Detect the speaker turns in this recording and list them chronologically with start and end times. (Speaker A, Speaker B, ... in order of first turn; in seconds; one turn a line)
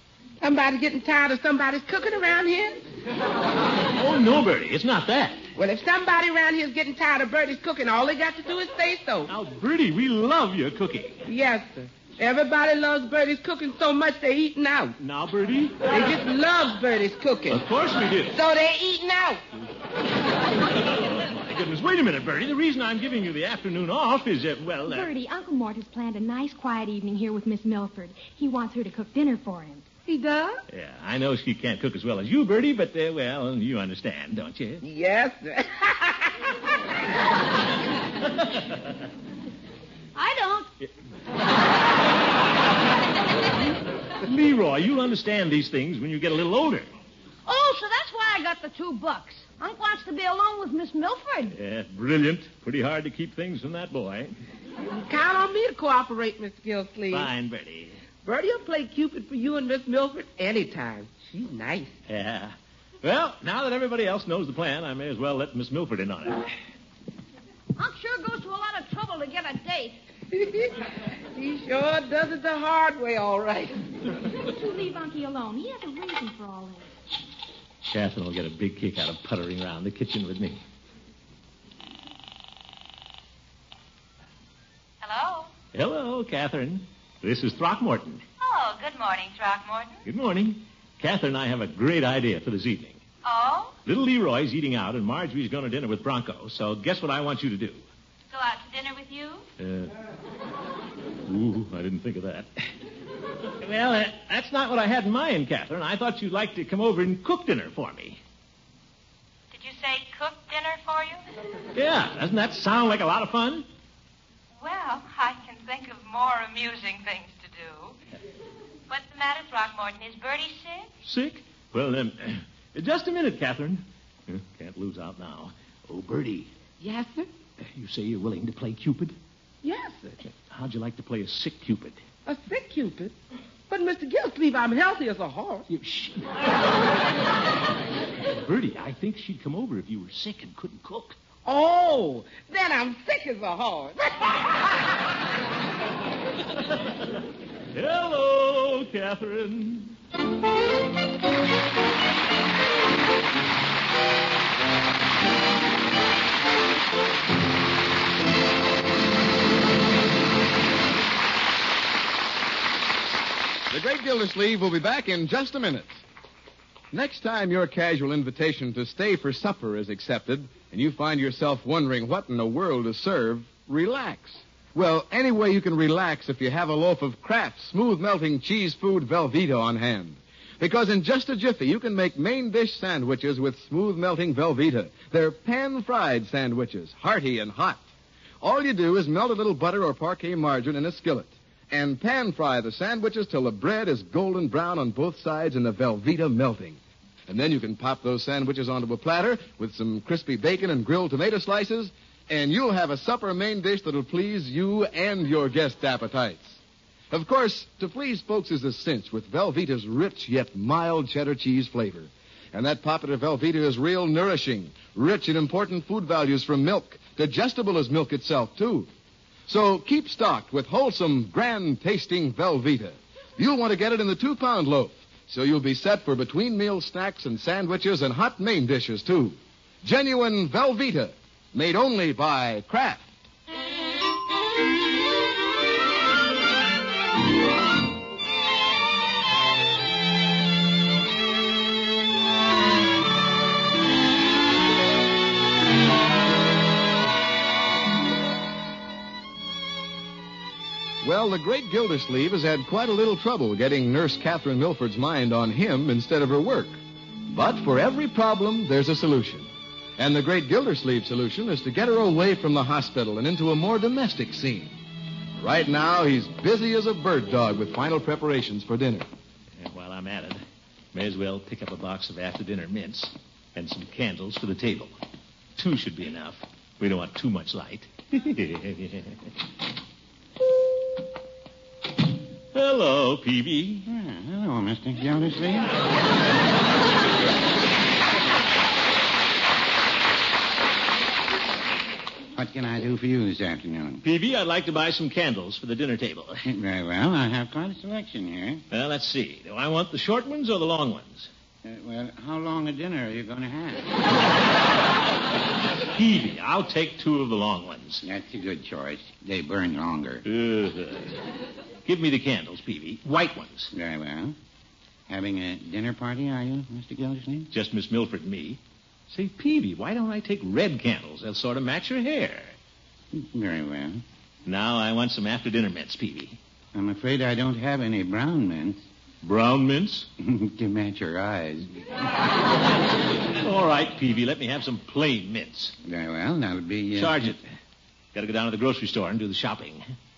Speaker A: 0.4-2.8
Speaker B: 4.0-5.5
Speaker A: 5.5-9.3
Speaker B: 9.3-11.2
Speaker A: 11.3-14.9
Speaker B: 15.0-15.9
Speaker A: 15.9-17.6
Speaker B: 17.5-18.4
Speaker A: 18.3-19.4
Speaker B: 20.6-25.1
Speaker C: 24.9-29.9
Speaker A: 30.1-30.6
Speaker B: 30.7-34.8
Speaker A: 34.8-36.3
Speaker D: 40.1-40.7
Speaker B: 44.2-46.9
Speaker D: 47.5-51.6
Speaker B: 51.5-54.3
Speaker A: 54.9-57.3
Speaker B: 57.1-58.0
Speaker A: 58.2-61.9
Speaker B: 62.1-66.5
Speaker D: 67.8-70.0
Speaker A: 70.3-70.7
Speaker A: 71.3-73.8
Speaker C: 74.4-76.9
Speaker B: 77.8-80.6
Speaker E: 85.0-85.5
Speaker B: 85.7-88.2
Speaker E: 88.4-90.0
Speaker B: 90.0-93.0
Speaker E: 93.2-93.7
Speaker B: 93.8-97.8
Speaker E: 98.3-99.4
Speaker B: 99.6-99.9
Speaker B: 101.2-102.6
Speaker B: 103.6-108.2
Speaker E: 109.5-111.2
Speaker B: 111.7-113.6
Speaker E: 114.6-118.0
Speaker E: 118.9-120.9
Speaker B: 121.0-126.5
Speaker A: 126.8-127.3
Speaker B: 127.6-129.2
Speaker A: 129.6-130.2
Speaker B: 130.5-132.0
Speaker A: 132.2-133.1
Speaker A: 133.7-135.7
Speaker B: 135.7-136.4
Speaker B: 138.3-141.2
Speaker A: 141.4-144.5
Speaker B: 147.7-149.9
Speaker F: 163.7-166.0
Speaker F: 166.9-187.8
Speaker F: 188.4-206.6
Speaker F: 207.1-218.9
Speaker F: 219.5-233.1
Speaker F: 251.0-264.7
Speaker F: 265.4-269.1
Speaker B: 269.6-270.4
Speaker B: 270.9-274.9
Speaker B: 275.6-279.1
Speaker B: 282.5-283.9
Speaker G: 283.9-285.7
Speaker G: 292.4-294.0
Speaker B: 294.0-296.4
Speaker G: 296.4-298.6
Speaker B: 298.7-301.3
Speaker G: 301.6-303.9
Speaker B: 305.9-308.0
Speaker G: 308.0-310.2
Speaker B: 310.2-311.2
Speaker B: 311.8-313.7
Speaker G: 313.7-314.3
Speaker G: 315.1-317.5
Speaker B: 317.5-318.6
Speaker B: 319.1-322.5
Speaker G: 323.1-324.0
Speaker B: 324.4-326.4
Speaker G: 326.7-328.8
Speaker B: 329.2-330.1
Speaker G: 330.2-331.8
Speaker B: 333.4-335.7
Speaker G: 335.8-337.4
Speaker B: 336.9-337.4
Speaker B: 338.1-339.8